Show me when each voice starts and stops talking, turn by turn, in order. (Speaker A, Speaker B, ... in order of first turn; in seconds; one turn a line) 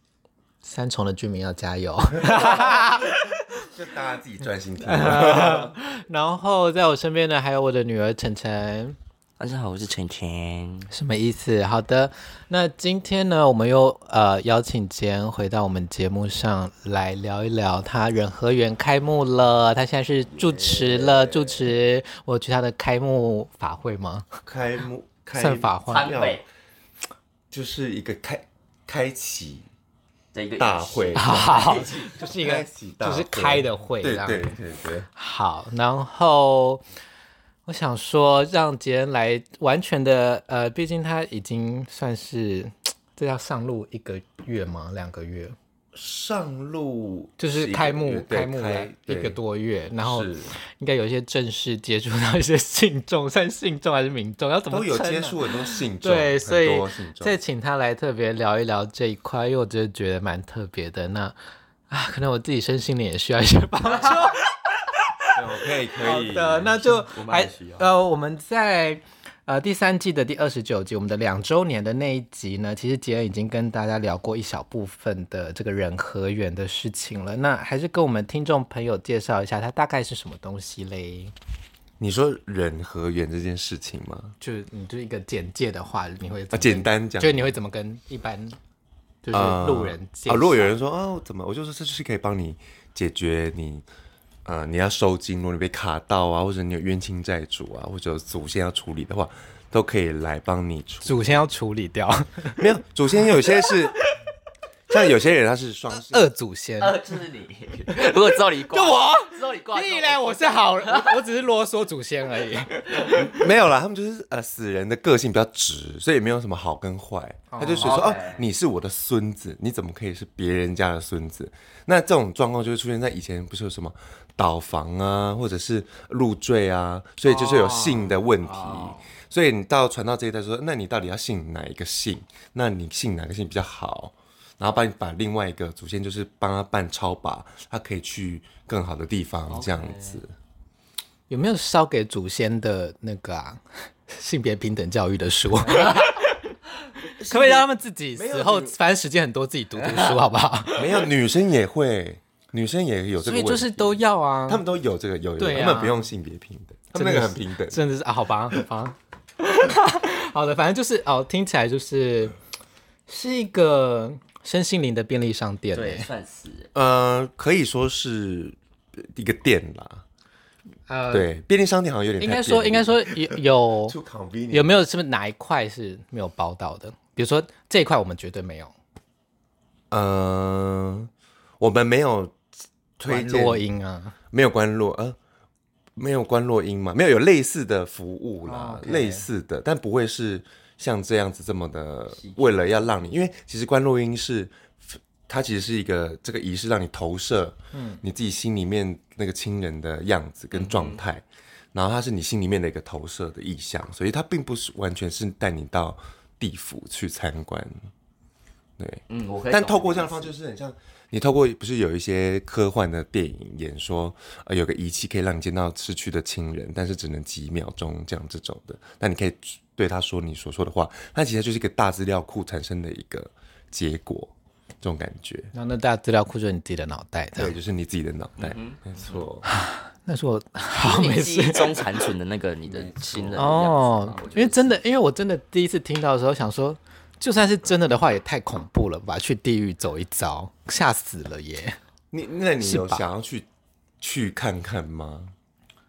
Speaker A: 0.6-3.2
Speaker B: 2.1-5.8
Speaker A: 4.8-9.0
Speaker C: 9.4-10.9
Speaker A: 10.9-24.3
Speaker C: 20.3-21.3
Speaker B: 24.4-26.4
Speaker A: 25.3-26.1
Speaker C: 25.9-26.4
Speaker B: 27.5-29.7
Speaker C: 30.3-32.1
Speaker B: 30.6-35.1
Speaker A: 31.1-34.5
Speaker A: 35.1-36.8
Speaker A: 37.6-45.5
Speaker B: 45.9-49.4
Speaker A: 47.4-61.4
Speaker B: 50.0-50.5
Speaker B: 54.7-57.4
Speaker A: 61.9-65.4
Speaker B: 65.3-67.8
Speaker A: 66.0-81.3
Speaker B: 82.0-84.3
Speaker A: 84.4-88.6
Speaker B: 86.5-87.5
Speaker A: 89.2-90.7
Speaker B: 89.3-93.8
Speaker B: 94.4-101.4
Speaker A: 101.0-102.7
Speaker B: 102.5-104.0
Speaker A: 103.5-103.7
Speaker B: 104.9-106.3
Speaker A: 105.9-107.0
Speaker C: 106.8-111.2
Speaker A: 107.9-113.4
Speaker B: 113.1-140.3
Speaker A: 117.5-118.0
Speaker C: 117.8-118.5
Speaker C: 127.3-129.1
Speaker C: 139.5-140.2
Speaker A: 141.3-146.5
Speaker C: 145.7-146.1
Speaker B: 147.2-148.8
Speaker A: 147.3-151.1
Speaker B: 150.7-157.8
Speaker A: 153.2-154.6
Speaker A: 155.4-156.1
Speaker A: 156.9-162.3
Speaker A: 163.1-166.1
Speaker C: 165.7-166.7
Speaker B: 166.7-170.0
Speaker A: 170.9-171.3
Speaker B: 171.1-174.7
Speaker A: 172.2-173.9
Speaker A: 174.5-178.7
Speaker B: 179.9-181.1
Speaker B: 181.6-182.4
Speaker B: 183.0-183.7
Speaker A: 183.0-184.1
Speaker B: 184.3-185.2
Speaker B: 185.9-207.9
Speaker A: 188.4-189.3
Speaker C: 192.2-192.8
Speaker A: 197.7-198.0
Speaker C: 200.5-201.0
Speaker B: 208.8-225.5
Speaker C: 209.1-210.3
Speaker A: 225.5-227.5
Speaker B: 227.4-229.5
Speaker C: 228.4-229.2
Speaker A: 229.4-232.1
Speaker C: 230.8-234.8
Speaker B: 232.6-234.5
Speaker A: 233.3-241.8
Speaker B: 242.1-243.5
Speaker A: 242.6-243.0
Speaker B: 244.0-245.3